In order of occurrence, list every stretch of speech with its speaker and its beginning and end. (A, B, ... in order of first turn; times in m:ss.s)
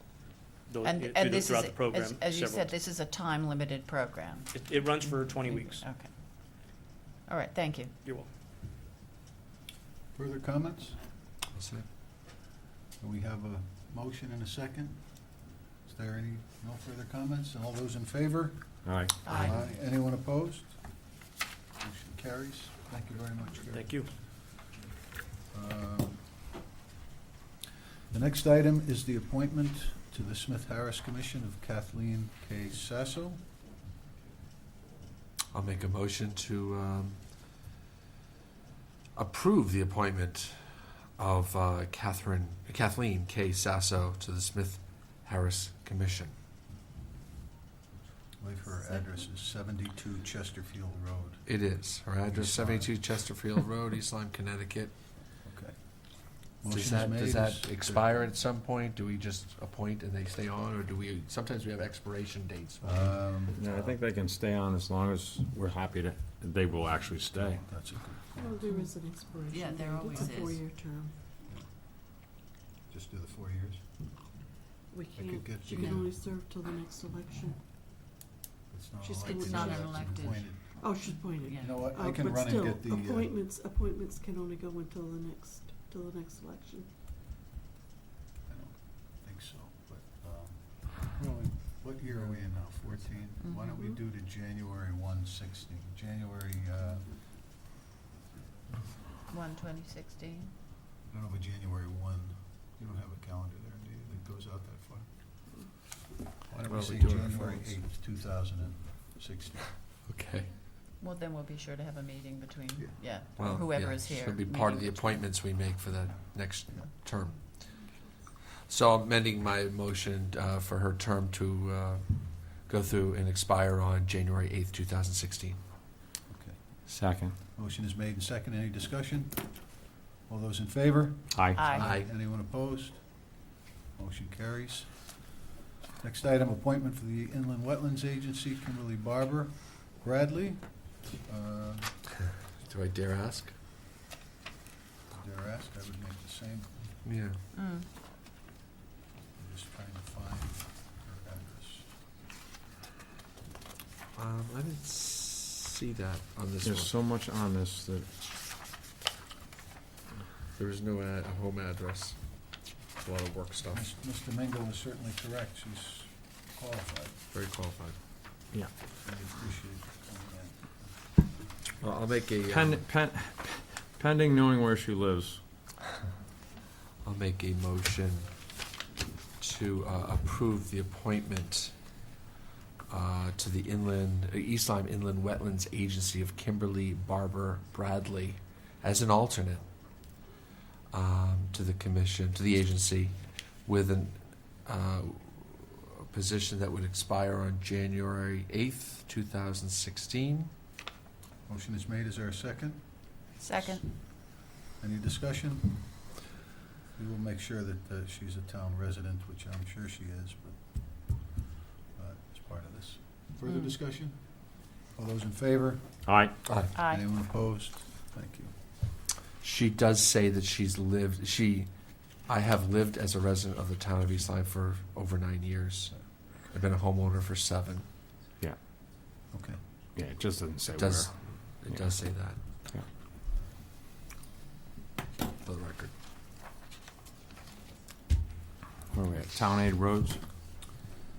0:00.7-0:02.7 A
0:00.8-0:06.7 B
0:04.5-0:05.9 A
0:07.3-0:07.9 B
0:08.0-0:08.3 A
0:10.1-0:11.0 C
0:11.5-0:11.8 D
0:13.0-0:21.0 C
0:18.8-0:19.1 E
0:19.2-0:19.7 B
0:21.8-0:24.0 C
0:23.7-0:24.1 A
0:25.5-0:26.2 C
0:28.1-0:33.4 C
0:35.5-0:37.2 D
0:39.1-0:46.3 D
0:48.4-0:51.5 C
0:51.4-0:54.9 D
0:52.2-0:53.1 C
0:55.4-0:58.1 C
0:56.7-1:03.4 D
1:02.8-1:03.9 C
1:03.6-1:07.6 E
1:07.4-1:08.5 C
1:08.3-1:11.2 F
1:08.7-1:08.9 B
1:09.4-1:10.6 B
1:12.9-1:13.8 C
1:14.9-1:17.6 F
1:15.1-1:16.2 C
1:18.7-1:20.6 C
1:19.0-1:19.9 F
1:19.2-1:21.9 B
1:20.6-1:26.9 F
1:21.6-1:23.3 C
1:28.4-1:37.2 C
1:33.4-1:33.9 B
1:39.3-1:40.5 B
1:41.1-1:45.1 C
1:46.5-1:49.8 C
1:46.6-1:47.8 D
1:50.0-1:50.5 D
1:51.0-1:55.4 B
1:52.8-1:53.1 C
1:53.3-1:57.8 D
1:56.5-1:56.9 C
1:58.6-2:05.6 D
2:06.3-2:06.9 C
2:06.9-2:07.3 E
2:07.5-2:15.3 C
2:11.5-2:11.9 B
2:11.7-2:12.1 D
2:16.0-2:22.0 C
2:22.6-2:23.5 D
2:25.1-2:26.9 C
2:27.0-2:27.4 D
2:27.5-2:27.8 B
2:29.4-2:31.9 C
2:34.1-2:36.9 D
2:36.7-2:38.1 E
2:40.5-2:43.9 D
2:43.7-2:47.2 C
2:47.3-2:48.0 D
2:48.9-2:51.2 C
2:51.8-2:52.8 D
2:52.5-2:55.4 E
2:57.0-2:58.3 D
2:59.4-3:01.8 D
3:02.9-3:09.6 D
3:10.9-3:20.5 D
3:21.5-3:26.1 C
3:23.4-3:23.9 B
3:26.9-3:31.3 C
3:31.9-3:36.0 C
3:33.4-3:33.7 B
3:36.4-3:36.7 D
3:36.7-3:38.6 C
3:36.7-3:37.0 B
3:39.4-3:41.7 D
3:42.2-3:47.9 D
3:49.3-3:49.6 C
3:50.0-3:50.9 E
3:50.6-3:52.4 D
3:55.4-3:55.9 D
3:58.9-4:00.2 E